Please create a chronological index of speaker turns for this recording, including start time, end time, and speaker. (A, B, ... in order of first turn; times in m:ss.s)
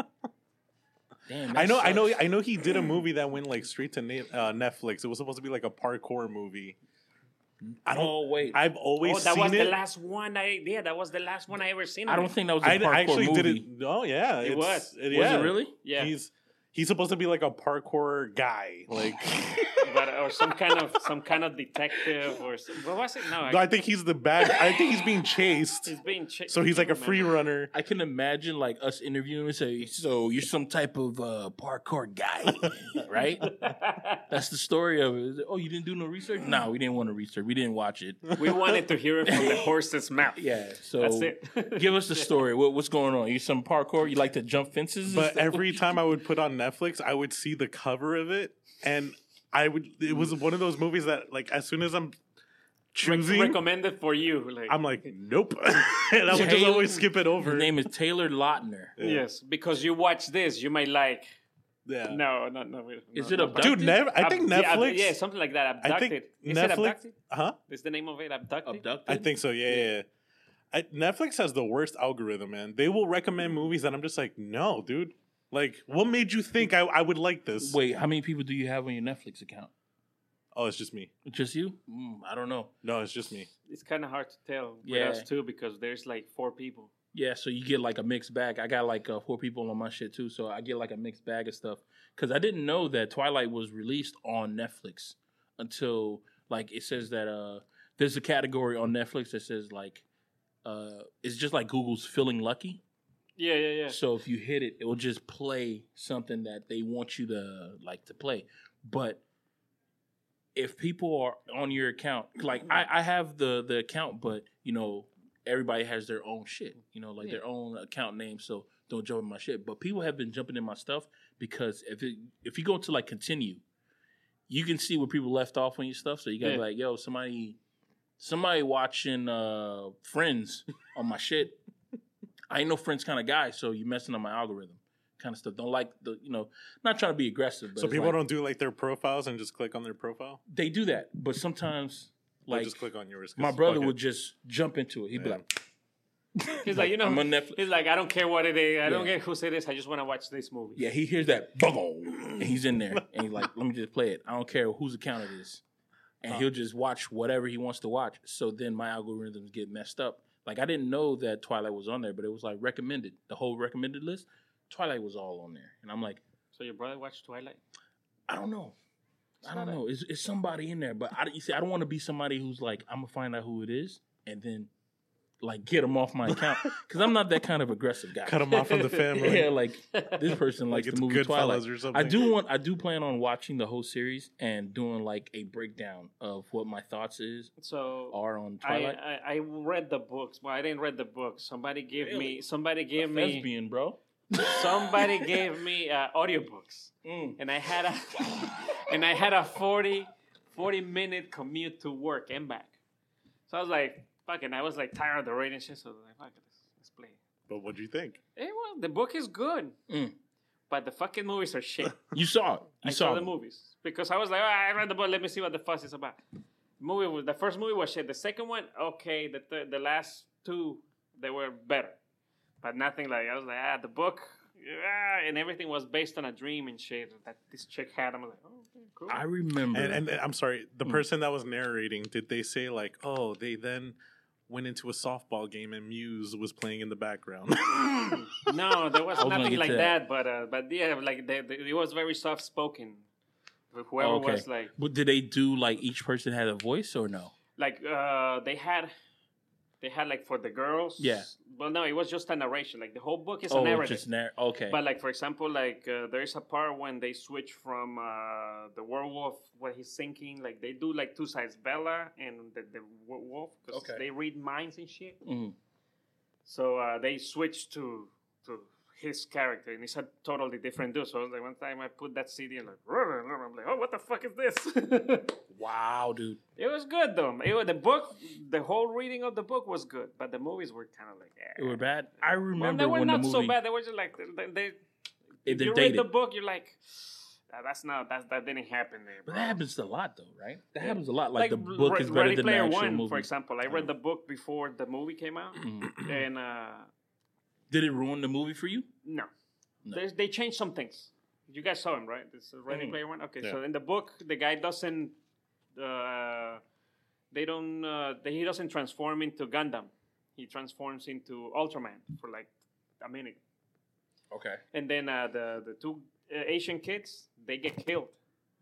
0:01.3-0:02.2 A
0:01.5-0:06.8 B
0:07.8-0:09.8 B
0:07.9-0:08.6 A
0:09.0-0:12.3 C
0:12.1-0:13.6 A
0:12.6-0:20.6 B
0:14.4-0:16.1 C
0:15.1-0:15.7 A
0:19.8-0:23.6 C
0:23.4-0:25.9 B
0:25.8-0:27.3 C
0:26.5-0:27.7 B
0:27.7-0:33.6 A
0:33.4-0:34.2 C
0:34.3-0:38.7 A
0:38.4-0:40.4 C
0:39.2-0:39.7 A
0:40.4-0:45.9 A
0:41.0-0:42.3 C
0:45.0-0:52.2 B
0:52.9-0:53.6 B
0:53.0-0:54.8 C
0:54.7-0:57.9 B
0:56.3-0:59.0 A
0:59.0-0:59.2 B
0:59.0-1:01.4 C
1:01.8-1:02.2 B
1:02.1-1:07.1 C
1:03.1-1:03.8 A
1:03.6-1:05.2 B
1:05.8-1:07.6 B
1:07.7-1:08.8 C
1:08.6-1:09.3 A
1:09.1-1:10.0 B
1:10.7-1:17.8 B
1:17.6-1:19.7 A
1:20.5-1:21.1 B
1:21.2-1:22.7 A
1:22.8-1:23.5 B
1:23.6-1:26.9 C
1:24.8-1:25.3 A
1:27.1-1:40.0 A
1:40.6-1:42.8 A
1:43.4-1:44.0 C
1:43.9-1:49.2 A
1:50.5-2:03.6 A
2:04.5-2:07.6 A
2:08.2-2:11.6 A
2:12.5-2:18.2 A
2:17.8-2:20.4 B
2:20.5-2:22.8 A
2:22.5-2:23.9 B
2:23.4-2:25.4 A
2:25.1-2:25.4 B
2:26.4-2:27.6 A
2:26.6-2:30.8 C
2:28.8-2:29.2 A
2:30.8-2:35.6 A
2:36.2-2:46.2 A
2:46.5-2:47.6 C
2:48.3-2:48.8 A
2:49.4-2:49.8 C
2:49.4-2:54.7 A
2:55.4-3:07.5 A
2:56.4-2:56.6 B
2:58.2-2:59.5 B
2:58.6-3:00.4 C
3:00.7-3:02.3 B
3:07.6-3:13.5 C
3:08.1-3:09.0 A
3:12.0-3:12.4 A
3:13.0-3:15.4 A
3:14.4-3:22.8 C
3:17.0-3:17.4 A
3:18.1-3:19.0 A
3:23.5-3:27.2 C
3:27.5-3:28.2 B
3:28.4-3:29.7 C
3:29.9-3:30.1 A
3:30.7-3:32.0 C
3:32.1-3:33.3 A
3:32.8-3:36.2 C
3:36.8-3:42.0 C
3:42.6-3:49.2 C
3:49.1-3:50.0 A
3:49.7-3:54.0 B
3:54.5-3:58.3 B
3:58.4-4:03.0 C
3:59.1-4:00.0 A
4:03.7-4:04.7 C
4:04.0-4:07.3 A
4:07.6-4:08.9 C
4:09.8-4:14.0 C
4:11.0-4:11.3 A
4:13.5-4:14.8 A
4:14.7-4:25.2 C
4:23.7-4:24.0 A
4:25.2-4:25.6 A
4:26.4-4:35.4 C
4:35.5-4:36.4 A
4:36.6-4:41.8 C
4:41.6-4:43.6 A
4:42.6-4:44.8 C
4:45.4-4:49.6 C
4:45.4-4:46.0 A
4:49.2-4:53.3 A
4:50.8-4:56.9 C
4:55.6-4:56.0 A
4:55.9-4:56.2 B
4:57.7-4:58.9 A
4:59.0-4:59.3 C
4:59.9-5:05.1 C
5:02.7-5:03.0 A
5:05.7-5:06.6 C
5:07.3-5:13.4 C
5:14.3-5:14.6 A
5:14.7-5:18.2 C